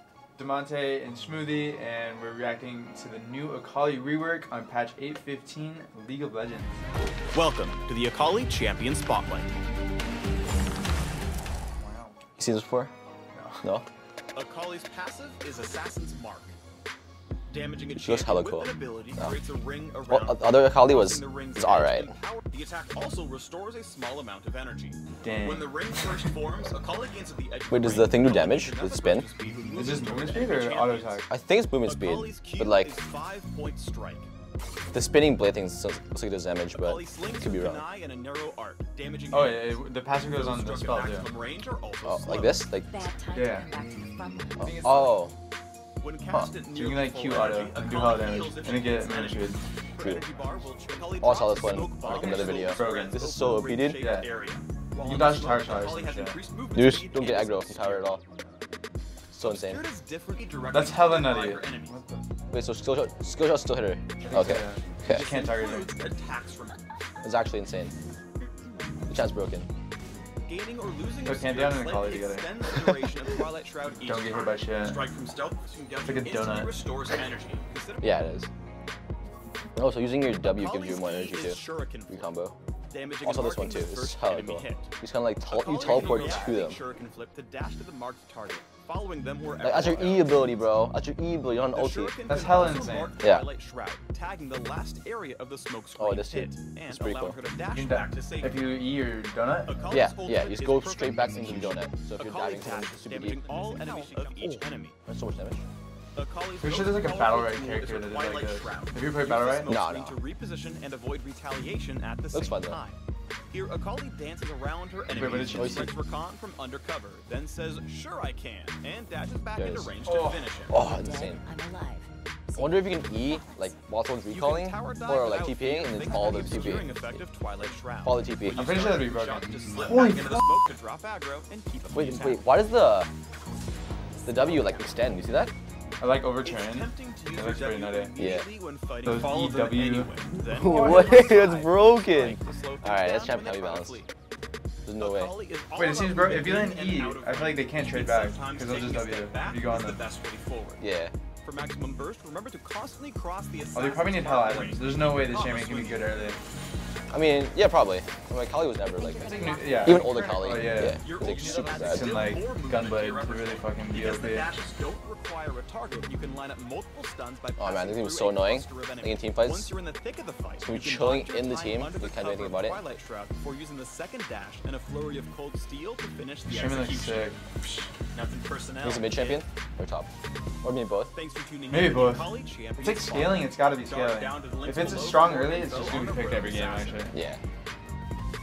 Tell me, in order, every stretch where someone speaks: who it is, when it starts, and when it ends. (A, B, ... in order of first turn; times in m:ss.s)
0:00.4-0:06.8 A
0:07.3-0:09.5 B
0:11.8-0:12.2 A
0:12.4-0:12.9 C
0:13.3-0:13.6 A
0:14.3-0:16.5 B
0:17.5-0:31.2 B
0:18.0-0:19.4 C
0:20.1-0:22.1 C
0:25.2-0:26.2 A
0:27.7-0:29.3 C
0:29.7-0:31.3 A
0:31.3-0:33.0 C
0:31.8-0:34.3 B
0:34.9-0:37.8 C
0:36.7-0:42.6 B
0:39.3-0:41.3 A
0:42.0-0:42.9 C
0:42.9-0:44.7 D
0:43.3-0:43.7 A
0:44.6-0:45.2 A
0:44.8-0:45.3 C
0:46.0-0:58.1 B
0:46.3-0:49.6 A
0:51.2-0:54.0 C
0:52.5-0:53.2 A
0:54.0-0:54.3 A
0:55.0-0:56.4 A
0:56.7-0:58.2 C
0:59.3-0:59.8 C
0:59.4-1:02.0 B
1:00.7-1:02.2 A
1:02.5-1:05.2 C
1:04.2-1:05.9 A
1:05.0-1:06.8 B
1:07.2-1:07.9 C
1:09.1-1:09.7 C
1:10.4-1:18.1 B
1:11.2-1:12.5 A
1:14.0-1:15.0 A
1:16.0-1:16.8 A
1:18.0-1:18.5 C
1:19.8-1:22.6 C
1:20.4-1:22.3 B
1:22.9-1:24.9 B
1:23.2-1:26.8 C
1:25.5-1:30.6 B
1:25.8-1:26.4 A
1:29.6-1:32.2 C
1:31.7-1:38.7 B
1:32.3-1:33.2 A
1:33.2-1:33.4 C
1:36.0-1:37.4 C
1:37.7-1:39.7 A
1:39.6-1:45.0 B
1:39.9-1:44.2 C
1:45.0-1:45.6 C
1:46.2-1:53.0 B
1:46.6-1:49.7 A
1:49.6-1:50.2 C
1:52.3-1:52.8 C
1:53.5-2:00.8 B
1:55.1-1:55.9 A
1:55.5-1:55.9 C
1:59.6-1:59.9 C
2:00.0-2:00.5 A
2:00.7-2:01.4 C
2:00.9-2:03.8 D
2:02.6-2:07.2 C
2:04.3-2:12.4 B
2:08.0-2:08.7 C
2:08.5-2:10.4 A
2:11.9-2:13.1 C
2:14.2-2:15.1 D
2:14.2-2:15.5 C
2:16.0-2:18.1 A
2:16.4-2:24.1 B
2:18.2-2:18.5 C
2:19.0-2:20.1 A
2:20.5-2:24.0 C
2:20.9-2:21.2 A
2:24.8-2:25.3 C
2:25.0-2:30.8 B
2:25.8-2:30.0 A
2:30.8-2:31.1 C
2:31.4-2:36.3 B
2:33.7-2:36.4 A
2:37.1-2:42.1 C
2:38.8-2:40.7 D
2:39.2-2:44.5 A
2:41.0-2:57.3 B
2:47.6-2:49.7 C
2:50.6-2:52.8 C
2:56.4-2:57.8 A
2:58.1-2:59.4 B
2:58.8-3:00.1 C
3:00.6-3:01.1 C
3:01.1-3:07.1 B
3:01.7-3:07.1 A
3:07.1-3:07.4 C